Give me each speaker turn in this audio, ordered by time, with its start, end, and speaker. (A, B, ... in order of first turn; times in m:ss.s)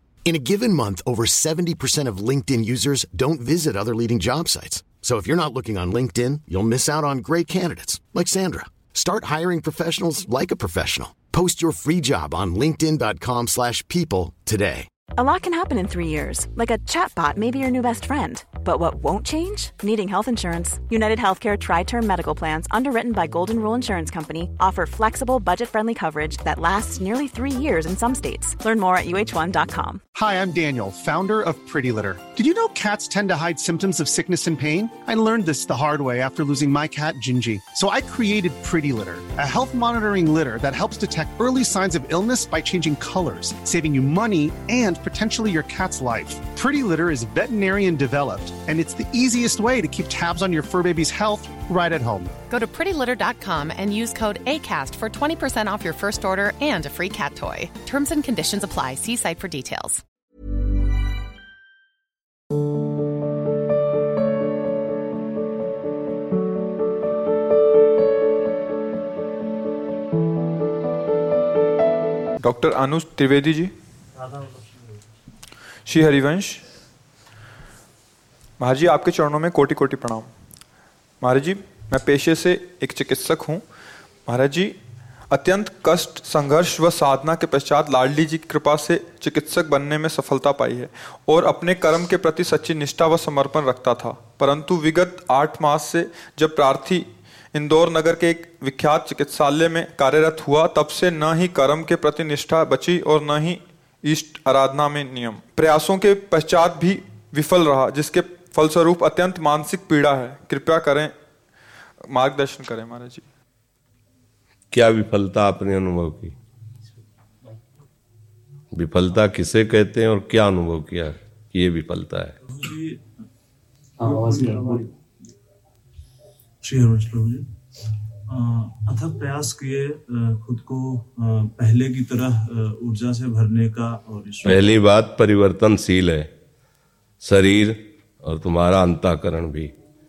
0:00.2-0:14.9 A
0:15.2-0:30.0 B
0:30.1-0:52.3 C
0:52.5-1:00.0 D
1:12.4-1:13.7 E
1:14.2-1:15.0 F
1:15.8-1:16.6 E
1:18.6-1:20.3 E
1:21.2-1:23.6 E
1:24.2-1:24.7 E
1:25.3-1:51.1 E
1:52.0-1:53.2 E
1:54.7-1:56.3 G
1:58.7-2:02.4 G
2:02.4-2:03.0 F
2:04.0-2:05.0 F
2:06.6-2:07.5 F
2:08.3-2:14.7 F
2:14.4-2:16.3 G
2:17.2-2:19.7 G